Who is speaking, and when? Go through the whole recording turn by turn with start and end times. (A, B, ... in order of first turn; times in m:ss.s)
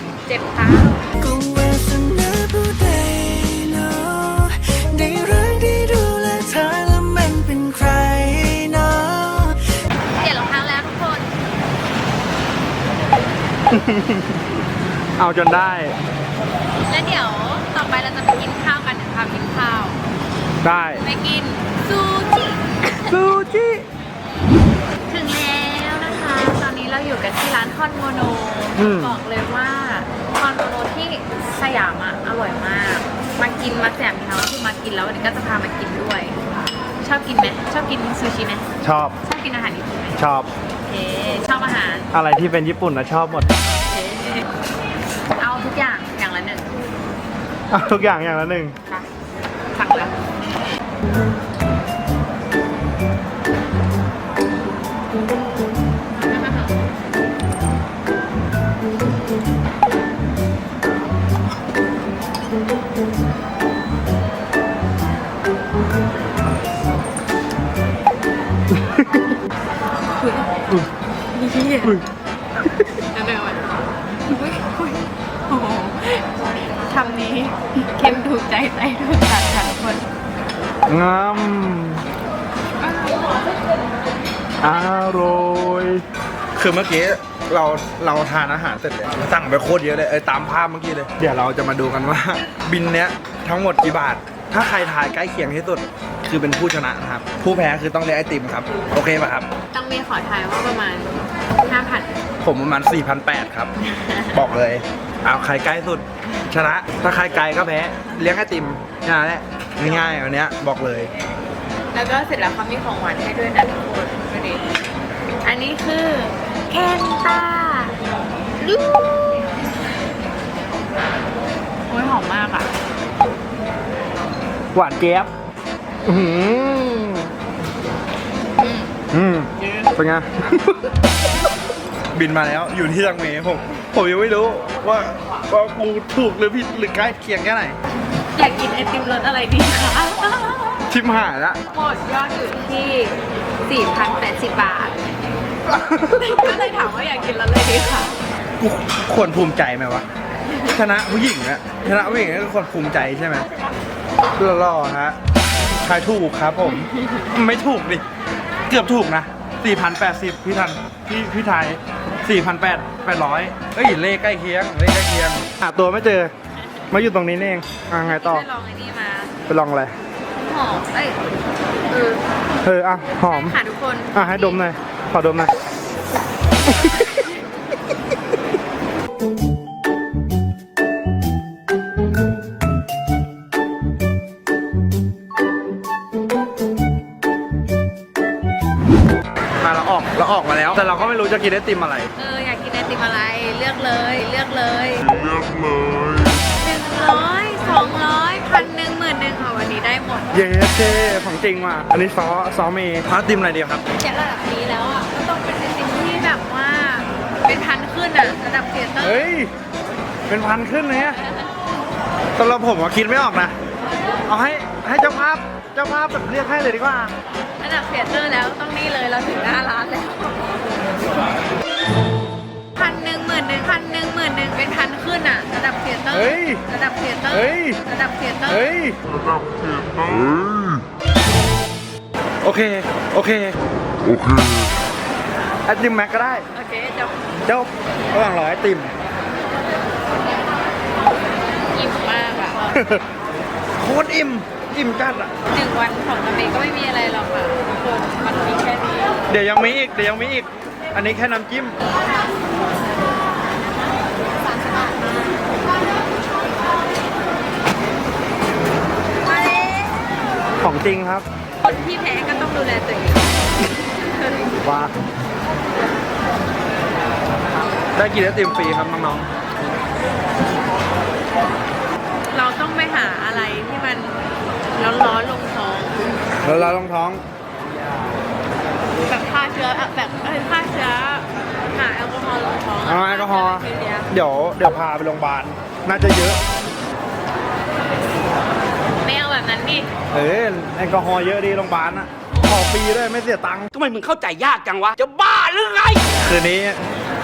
0:00.2-0:01.1 A
0:01.2-0:09.8 B
0:10.2-0:11.3 A
0:13.7-0:14.4 C
0:15.2-0:16.0 C
0:16.9-0:20.0 A
0:20.6-0:21.0 C
0:21.0-0:23.1 A
0:23.1-0:23.8 C
0:25.1-0:36.4 A
0:28.8-0:29.2 C
0:37.0-0:38.6 A
0:38.8-0:39.2 C
0:39.2-0:40.2 A
0:40.1-0:40.5 C
0:40.8-0:42.1 A
0:42.1-0:43.5 C
0:43.6-0:44.5 A
0:45.4-0:46.7 A
0:47.7-0:48.8 C
0:49.7-0:50.2 A
0:56.3-0:56.8 A
1:08.7-1:09.3 C
1:10.2-1:10.5 A
1:11.3-1:12.0 A
1:13.0-1:13.7 A
1:14.3-1:20.0 A
1:20.9-1:22.0 C
1:22.8-1:23.5 A
1:24.6-1:26.0 C
1:26.6-1:39.5 C
1:39.7-1:42.2 A
1:42.4-1:43.7 C
1:44.0-1:44.4 A
1:44.3-1:51.1 C
1:49.8-1:50.1 A
1:51.9-1:54.8 A
1:55.4-1:58.0 A
1:58.6-1:59.5 A
2:01.9-2:02.7 A
2:04.7-2:05.3 C
2:06.0-2:07.3 C
2:08.6-2:09.0 A
2:09.1-2:10.9 C
2:09.6-2:09.9 A
2:12.1-2:17.8 C
2:18.3-2:20.9 A
2:20.9-2:21.6 C
2:21.7-2:25.0 A
2:25.6-2:26.6 C
2:26.2-2:28.2 A
2:28.6-2:30.1 C
2:30.7-2:33.5 C
2:34.4-2:35.2 C
2:35.8-2:38.0 C
2:38.7-2:46.3 C
2:46.9-2:48.4 C
2:48.0-2:49.3 A
2:49.5-2:49.9 C
2:50.4-2:51.2 A
2:51.9-2:52.2 A
2:52.6-2:53.6 C
2:53.3-2:54.6 A
2:54.1-2:55.5 C
2:56.7-2:57.2 C
3:09.6-3:12.1 C
3:10.6-3:11.0 A
3:12.2-3:15.0 A
3:15.0-3:16.4 D
3:16.6-3:21.2 A
3:20.3-3:23.8 C
3:24.0-3:29.3 A
3:29.0-3:29.5 C
3:30.3-3:31.2 C
3:31.2-3:31.4 A
3:32.4-3:33.5 C
3:34.3-3:37.1 C
3:37.6-3:40.7 A
3:42.8-3:48.8 A
3:46.1-3:46.6 C
3:47.3-3:47.8 C
3:48.5-3:49.0 C
3:49.1-3:50.8 D
3:52.4-3:53.6 C
3:54.0-3:54.7 D
3:55.7-3:56.4 C
3:56.5-3:57.2 A
3:57.4-3:58.9 C
4:01.7-4:03.0 A
4:02.7-4:03.0 C
4:03.8-4:05.3 C
4:05.5-4:09.2 A
4:09.3-4:11.8 C
4:14.3-4:15.4 A
4:19.2-4:20.0 A
4:20.6-4:21.2 C
4:21.6-4:23.4 A
4:24.0-4:24.5 A
4:24.6-4:24.9 C
4:27.9-4:29.3 C
4:32.3-4:34.2 A
4:34.7-4:36.2 A
4:36.4-4:37.2 C
4:39.0-4:44.1 A
4:42.8-4:46.4 C
4:49.0-4:49.9 A
4:50.1-4:53.7 C
4:53.7-4:56.0 E
4:56.2-4:56.8 C